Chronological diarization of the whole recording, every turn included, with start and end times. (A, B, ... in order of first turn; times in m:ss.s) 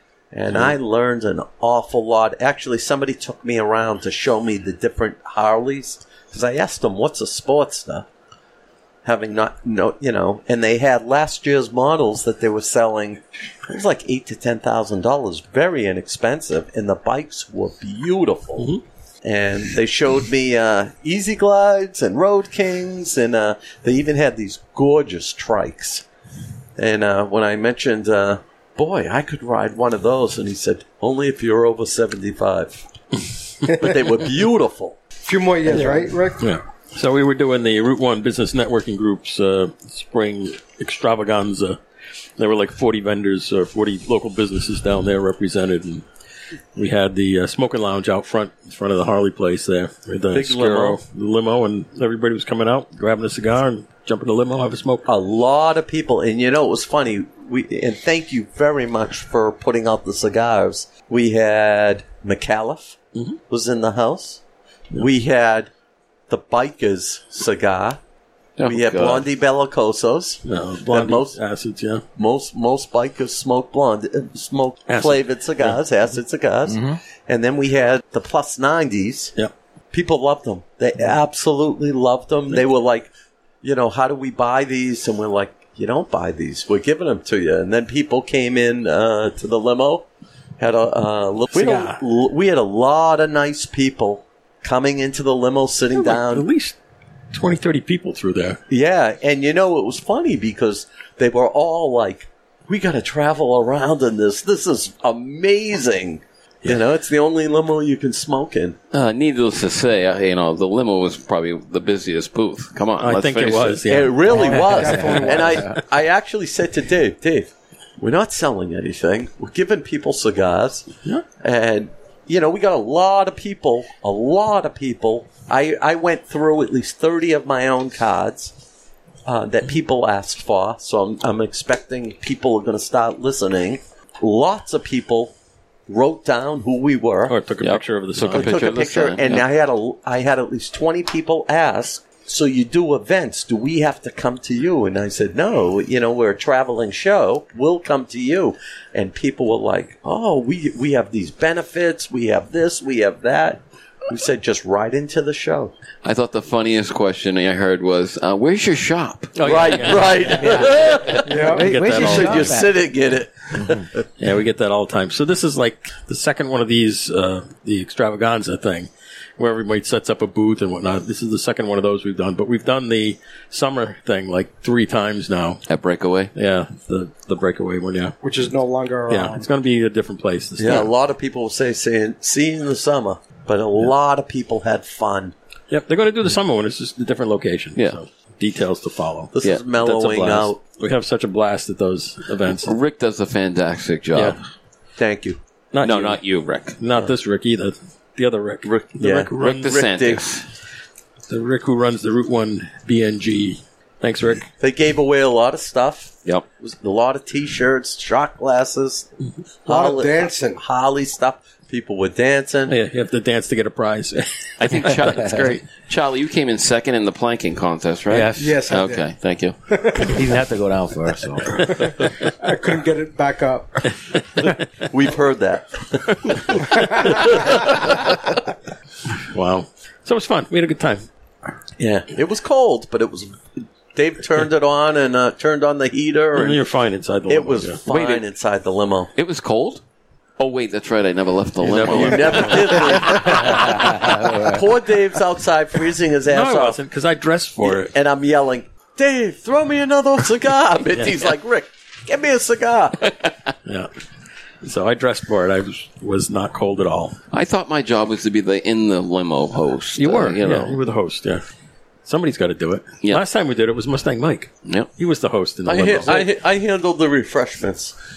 0:00.3-0:08.1 A
0:09.0-0:26.0 A
0:26.8-0:32.8 A
0:33.7-0:35.0 A
0:35.2-0:36.4 B
0:35.7-0:41.8 C
0:42.4-0:46.1 C
0:46.8-0:55.0 C
0:50.3-0:51.0 A
0:55.1-1:03.0 A
1:03.5-1:04.4 A
1:05.0-1:05.7 A
1:06.3-1:08.0 A
1:08.6-1:09.3 D
1:08.7-1:11.4 A
1:10.5-1:12.0 C
1:12.2-1:19.4 A
1:14.9-1:15.8 C
1:16.7-1:17.0 E
1:19.9-1:23.1 A
1:23.6-1:30.1 A
1:30.6-1:36.5 A
1:31.5-1:32.0 C
1:35.9-1:36.8 C
1:37.3-1:38.6 C
1:38.7-1:48.8 A
1:48.9-1:53.9 D
1:53.0-1:54.8 C
1:53.9-2:00.9 A
1:54.3-1:55.5 B
1:54.5-1:55.7 E
2:01.4-2:08.5 A
2:09.2-2:15.3 A
2:15.9-2:17.4 A
2:17.3-2:18.9 C
2:17.6-2:19.4 D
2:18.3-2:35.7 A
2:36.0-2:39.9 D
2:39.4-2:44.0 A
2:39.4-2:40.7 C
2:40.3-2:42.8 E
2:41.2-2:41.7 B
2:41.6-2:42.6 C
2:44.2-2:55.6 C
2:55.7-2:56.3 D
2:56.4-2:58.2 C
2:58.2-2:59.5 B
2:59.1-3:00.9 C
3:00.6-3:05.3 A
3:05.7-3:12.8 C
3:09.4-3:10.6 A
3:12.6-3:14.4 D
3:15.0-3:15.4 A
3:15.7-3:16.2 C
3:15.8-3:16.8 D
3:16.8-3:19.8 C
3:18.6-3:20.2 A
3:19.4-3:20.4 D
3:21.3-3:24.4 C
3:24.6-3:29.1 A
3:29.6-3:32.8 A
3:29.7-3:30.6 B
3:32.7-3:34.3 C
3:34.6-3:39.6 D
3:38.1-3:38.4 E
3:38.4-3:39.1 B
3:39.7-3:40.2 B
3:40.0-3:41.7 E
3:42.4-3:43.9 B
3:44.9-3:46.6 A
3:47.0-3:48.0 C
3:49.3-3:51.1 C
3:51.8-3:56.6 A
3:56.4-3:57.8 C
3:57.3-3:59.1 A
3:57.9-3:58.2 D
3:59.1-3:59.8 D
4:00.4-4:03.6 D
4:01.6-4:02.8 C
4:01.8-4:06.8 A
4:03.4-4:03.7 C
4:03.9-4:04.6 E
4:06.3-4:07.9 C
4:07.6-4:13.1 A
4:14.6-4:17.2 C
4:17.3-4:20.8 D
4:20.0-4:21.4 C
4:22.0-4:26.3 C
4:25.6-4:28.0 A